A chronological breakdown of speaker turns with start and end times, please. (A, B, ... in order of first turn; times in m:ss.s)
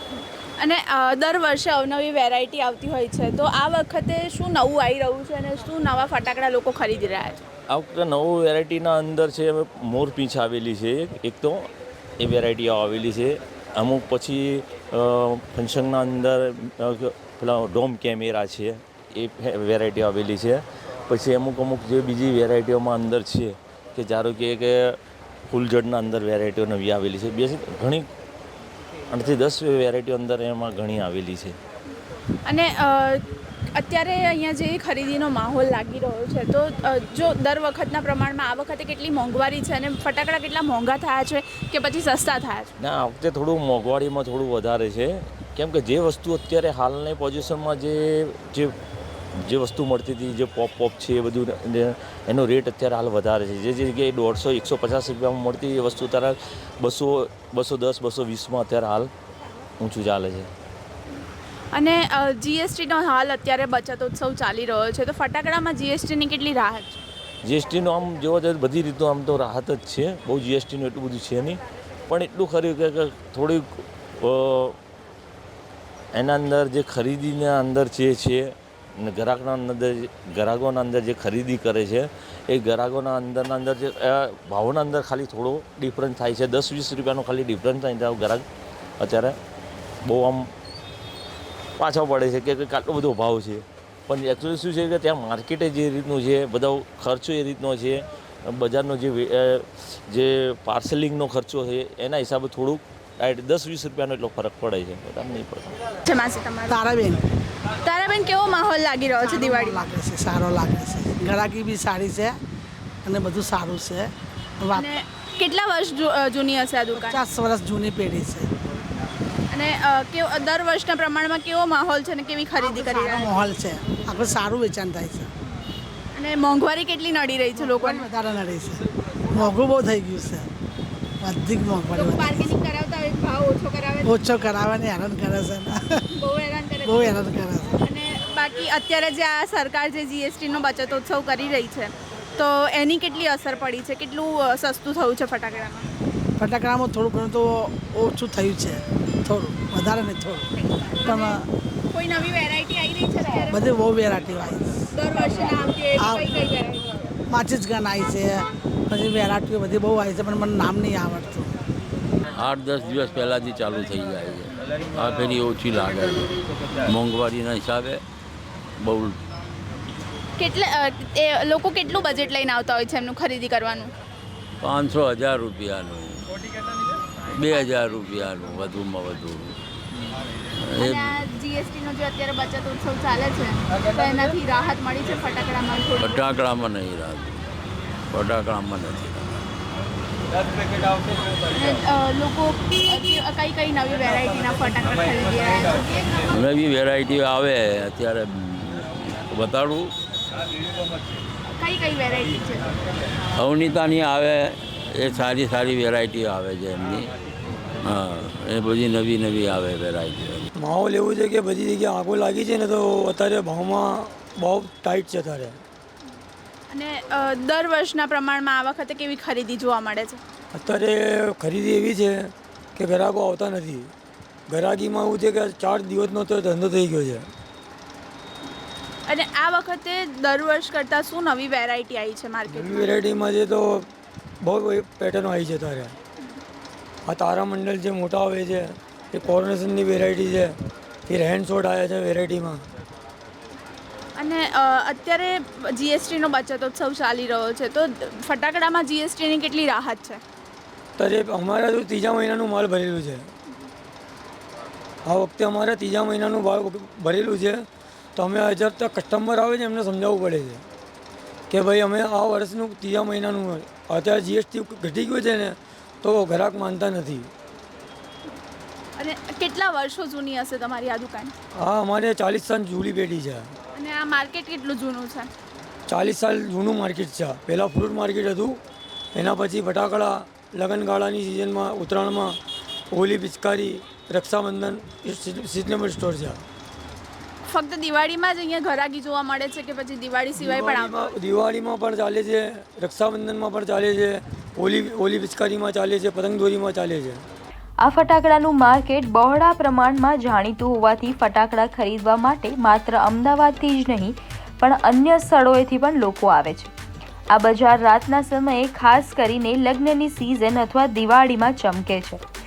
0:00.6-0:07.4 A
0:07.7-0:25.0 B
0:25.5-0:28.1 B
0:29.1-0:31.6 B
0:32.5-0:33.2 A
0:33.8-0:42.7 A
0:42.8-0:48.7 B
0:49.4-0:59.1 B
0:59.8-1:00.5 B
1:01.7-1:07.0 A
1:07.4-1:14.8 B
1:16.1-1:28.4 B
1:29.0-1:29.4 B
1:30.0-1:30.5 B
1:31.8-1:45.8 B
1:46.1-1:46.9 A
1:46.7-1:47.2 C
1:47.8-1:49.9 A
1:49.3-1:52.4 C
1:53.0-1:54.1 C
1:54.7-1:57.2 A
1:57.0-1:58.5 C
1:59.5-2:03.5 A
2:03.3-2:05.3 C
2:06.2-2:08.1 A
2:07.9-2:10.5 C
2:11.2-2:12.1 C
2:11.9-2:14.3 A
2:14.1-2:15.8 C
2:16.2-2:17.3 A
2:16.9-2:17.7 C
2:17.8-2:25.9 A
2:26.4-2:30.5 C
2:31.0-2:33.8 A
2:33.6-2:34.8 C
2:34.9-2:37.1 A
2:37.3-2:41.5 C
2:42.4-2:48.0 D
2:48.8-2:49.2 D
2:50.4-2:53.9 A
2:54.6-2:56.3 D
2:57.3-2:59.6 D
3:00.6-3:01.2 D
3:00.8-3:06.3 A
3:06.0-3:07.4 D
3:08.1-3:09.3 D
3:11.5-3:16.3 A
3:16.3-3:19.9 D
3:21.6-3:22.7 A
3:23.4-3:27.1 D
3:27.8-3:30.5 D
3:30.6-3:35.6 E
3:36.7-3:40.2 A
3:40.5-3:43.9 E
3:44.5-3:47.3 E
3:49.1-3:52.9 A
3:52.5-3:53.9 E
3:54.4-3:56.0 E
3:57.1-4:00.5 E
4:01.1-4:02.6 E
4:04.2-4:10.2 A
4:11.0-4:13.3 E
4:15.1-4:17.6 E
4:18.2-4:20.6 E
4:21.5-4:27.3 E
4:29.0-4:31.4 A
4:31.6-4:33.5 E
4:33.8-4:35.3 A
4:35.9-4:38.6 E
4:39.2-4:42.4 E
4:42.9-4:46.4 E
4:47.5-4:51.1 A
4:50.4-4:57.2 E
4:57.8-5:06.7 F
5:07.3-5:12.2 F